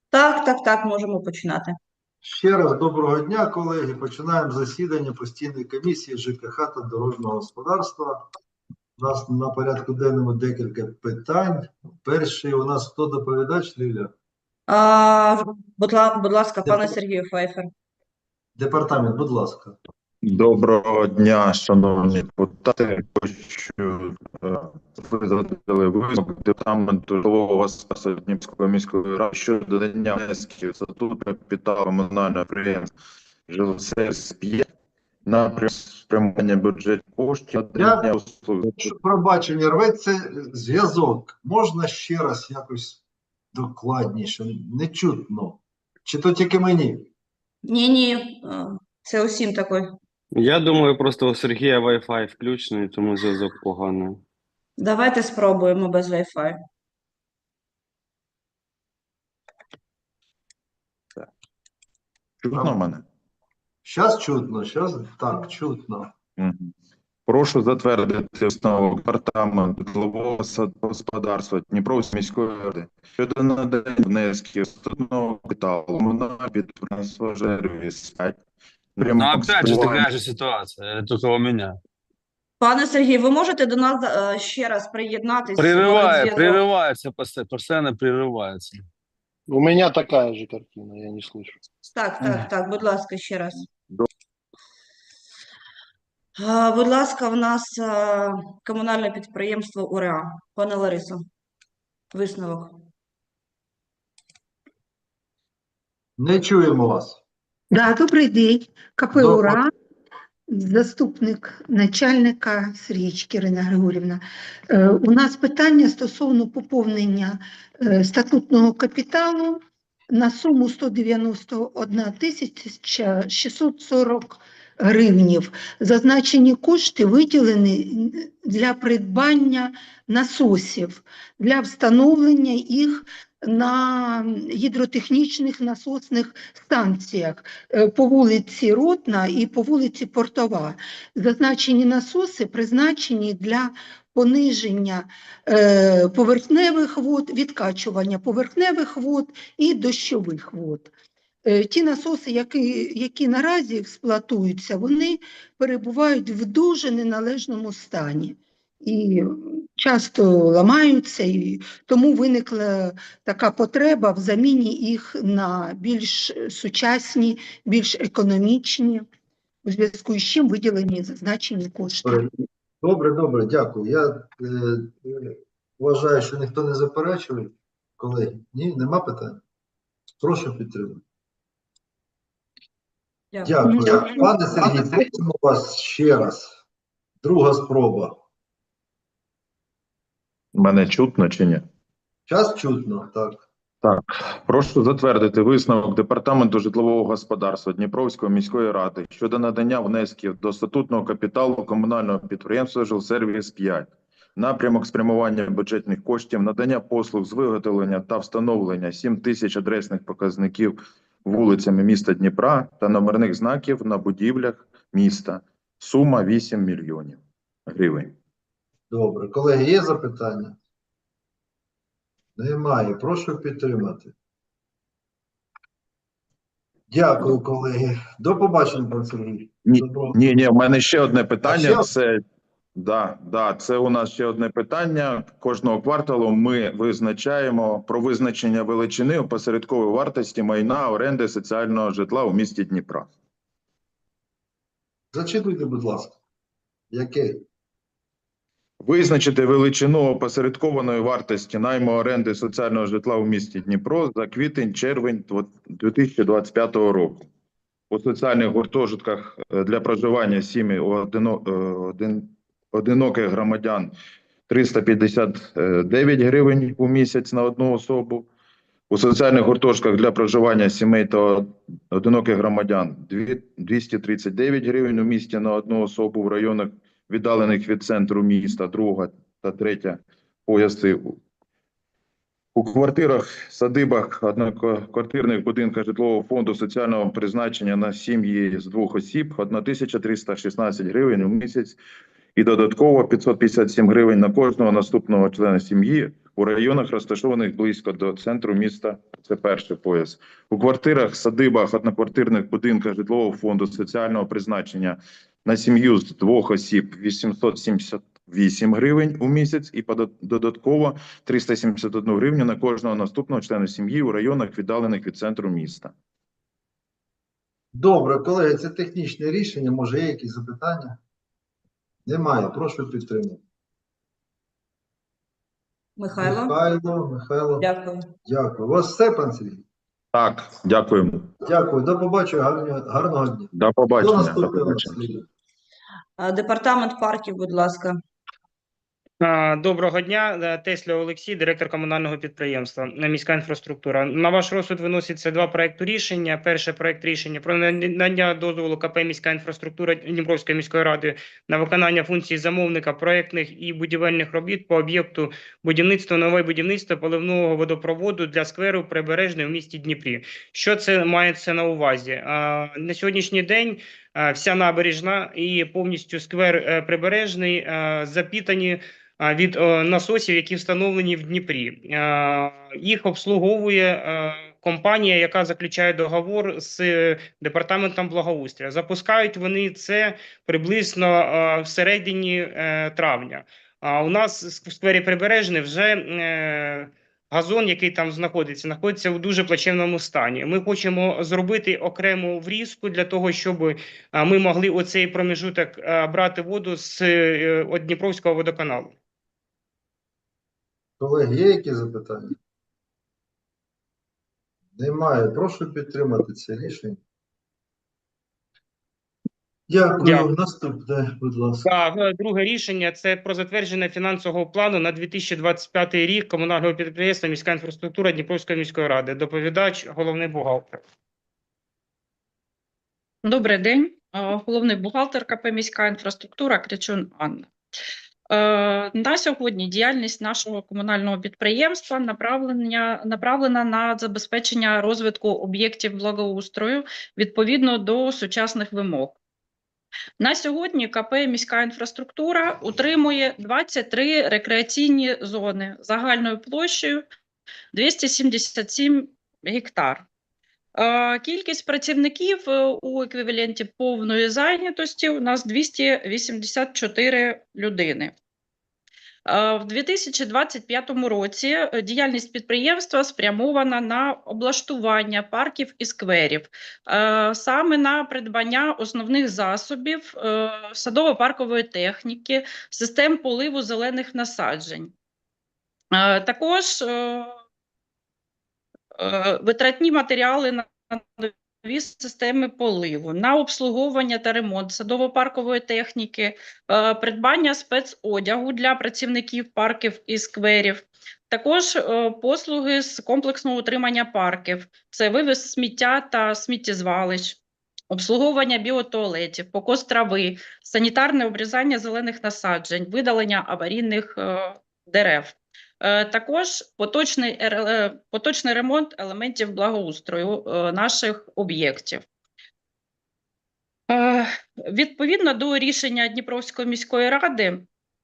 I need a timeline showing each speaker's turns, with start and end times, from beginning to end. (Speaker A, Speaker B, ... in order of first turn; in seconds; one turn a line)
Speaker A: 0.1-1.8
Speaker B: 2.2-8.3
Speaker B: 9.0-14.1
Speaker A: 14.7-17.7
Speaker B: 16.6-17.0
Speaker B: 18.6-19.8
Speaker C: 20.2-32.9
Speaker C: 33.5-34.7
Speaker C: 35.3-38.9
Speaker B: 37.8-38.1
Speaker B: 38.8-43.0
Speaker B: 43.5-47.1
Speaker A: 47.6-49.9
Speaker D: 50.3-54.2
Speaker A: 54.8-56.6
Speaker C: 62.4-63.0
Speaker B: 63.8-66.1
Speaker C: 66.4-66.7
Speaker C: 67.3-78.4
Speaker C: 79.0-80.1
Speaker E: 79.1-81.8
Speaker A: 82.6-86.7
Speaker E: 85.6-88.8
Speaker F: 89.5-91.6
Speaker A: 91.9-93.7
Speaker A: 96.4-101.2
Speaker A: 102.1-102.8
Speaker B: 106.2-107.2
Speaker G: 107.7-109.7
Speaker B: 109.1-109.6
Speaker G: 110.5-119.6
Speaker G: 120.1-150.9
Speaker G: 151.5-169.1
Speaker G: 169.7-172.3
Speaker B: 172.1-179.4
Speaker B: 180.2-181.0
Speaker A: 183.3-184.3
Speaker B: 183.4-186.6
Speaker G: 183.7-184.1
Speaker B: 187.2-188.2
Speaker C: 190.6-191.6
Speaker B: 192.3-193.5
Speaker C: 193.8-218.2
Speaker B: 218.9-220.6
Speaker B: 222.4-224.1
Speaker B: 226.9-230.4
Speaker C: 229.7-232.2
Speaker B: 231.4-231.9
Speaker C: 232.8-243.1
Speaker B: 245.1-246.2
Speaker B: 246.9-247.4
Speaker C: 248.8-257.3
Speaker C: 257.9-263.9
Speaker C: 264.5-268.3
Speaker C: 268.9-281.2
Speaker C: 282.6-291.8
Speaker C: 292.4-315.9
Speaker B: 317.7-321.0
Speaker B: 322.1-323.4
Speaker A: 326.0-326.6
Speaker B: 326.1-327.7
Speaker A: 327.6-328.1
Speaker B: 328.3-329.6
Speaker C: 330.1-331.3
Speaker B: 331.4-335.2
Speaker C: 333.5-335.0
Speaker A: 336.2-338.0
Speaker H: 339.2-398.9
Speaker B: 401.0-402.4
Speaker B: 404.8-407.0
Speaker B: 409.7-411.7
Speaker H: 410.0-410.3
Speaker H: 411.6-420.8
Speaker I: 423.2-427.5
Speaker I: 428.3-439.2
Speaker I: 440.2-447.0
Speaker I: 447.7-450.1
Speaker I: 450.8-458.1
Speaker I: 459.3-474.9
Speaker I: 475.9-477.3
Speaker I: 479.0-512.0
Speaker I: 513.9-517.7